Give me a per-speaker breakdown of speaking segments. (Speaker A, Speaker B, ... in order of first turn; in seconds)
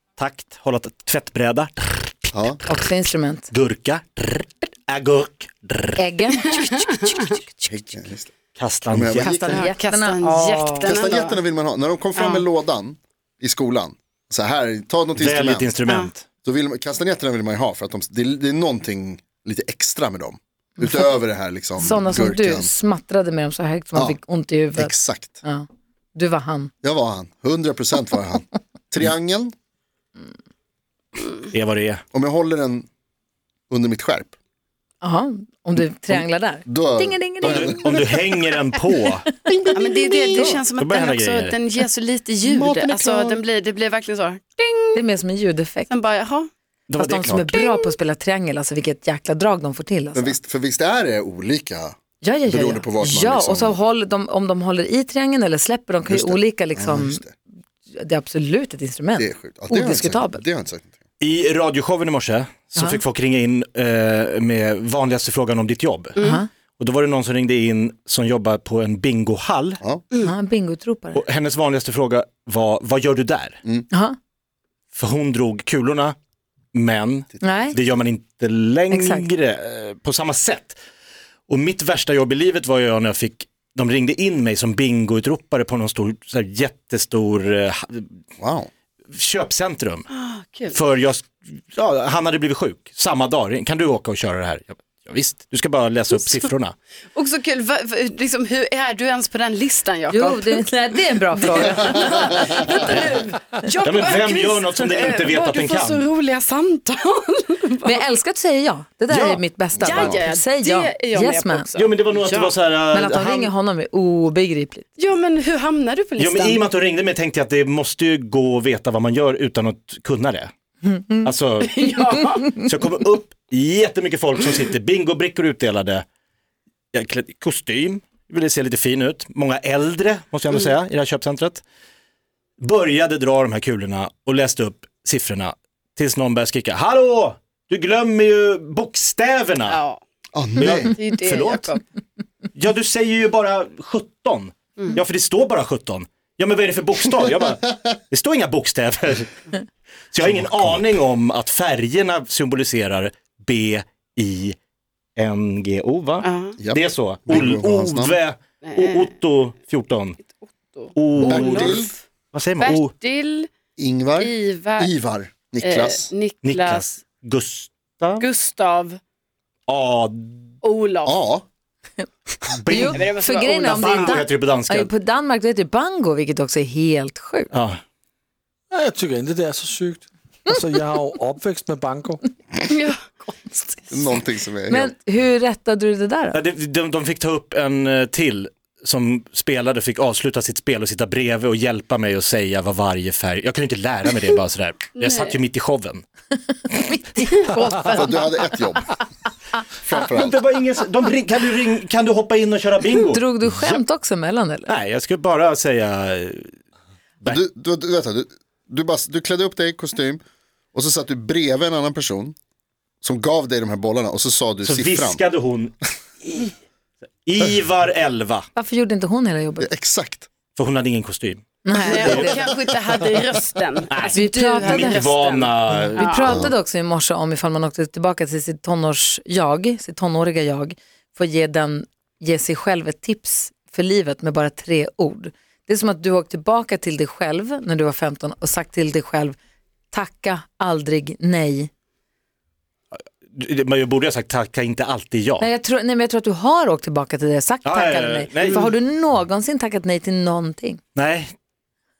Speaker A: 0.2-2.4, 3.5-6.0, 8.6-9.4, 15.2-16.2, 31.5-32.0, 37.4-39.3, 40.8-41.6, 46.9-47.5, 61.2-66.2, 66.8-69.8, 71.1-73.6, 74.9-76.2, 76.7-80.8, 81.5-88.1, 89.1-90.1, 90.7-96.8, 103.8-106.1, 111.8-113.5, 116.2-120.5, 121.2-121.8, 122.5-126.0, 126.9-131.6, 132.6-139.8, 140.6-141.7, 142.6-149.3, 150.1-154.6, 155.2-160.2, 160.9-162.9, 166.4-168.3, 169.7-170.5, 172.6-174.9, 177.5-177.8, 186.3-196.1, 200.0-203.8, 204.7-206.5, 214.6-216.5, 217.2-218.5, 220.6-222.3, 223.9-226.2, 242.9-245.5, 247.7-248.7, 250.9-251.3
Speaker B: 2.3-2.6, 7.7-8.3, 8.9-9.6, 10.8-15.8, 16.4-22.7, 24.8-25.4, 26.8-29.5, 32.1-32.9, 33.7-34.4, 36.1-38.0, 39.5-40.5, 42.4-43.4, 50.1-52.0, 52.5-53.8, 56.1-57.3, 59.2-60.9, 88.4-88.7, 109.8-110.2, 140.3-140.9, 150.3-150.8, 156.6-158.2, 161.2-161.9, 163.8-166.1, 171.1-171.4, 183.9-184.9, 197.9-198.9, 199.8-200.4, 207.3-210.2, 210.7-212.4, 213.0-215.2, 219.6-220.3, 226.3-226.5
Speaker C: 2.7-3.5, 6.0-8.0, 9.1-11.2, 20.8-21.1, 21.8-26.7, 35.0-38.5, 44.9-45.9, 47.0-50.4, 52.2-57.3, 57.9-60.4, 66.2-66.5, 70.2-71.2, 73.9-74.2, 77.4-77.8, 78.9-79.3, 100.1-103.3, 107.8-111.7, 112.9-114.9, 120.8-121.2, 172.7-177.5, 183.3-183.8, 184.7-186.4, 197.5-197.9, 203.1-204.7, 218.6-219.7, 221.7-222.5, 224.1-225.0, 225.9-239.4, 239.9-241.7, 245.4-250.8
Speaker D: 9.5-11.4, 12.2-12.4, 39.7-45.0, 45.9-46.5, 90.1-90.8, 97.1-100.6, 101.4-107.9, 109.8-112.5, 115.0-116.6, 121.6-122.6, 139.7-140.0, 140.6-141.8, 156.2-156.6, 158.6-159.1, 160.4-162.0, 162.6-163.5, 164.2-164.9, 165.6-167.0, 168.2-169.0, 170.6-171.2, 172.8-174.2, 182.7-183.0, 195.0-195.4, 197.3-198.1, 221.8-226.4
Speaker E: 178.7-182.2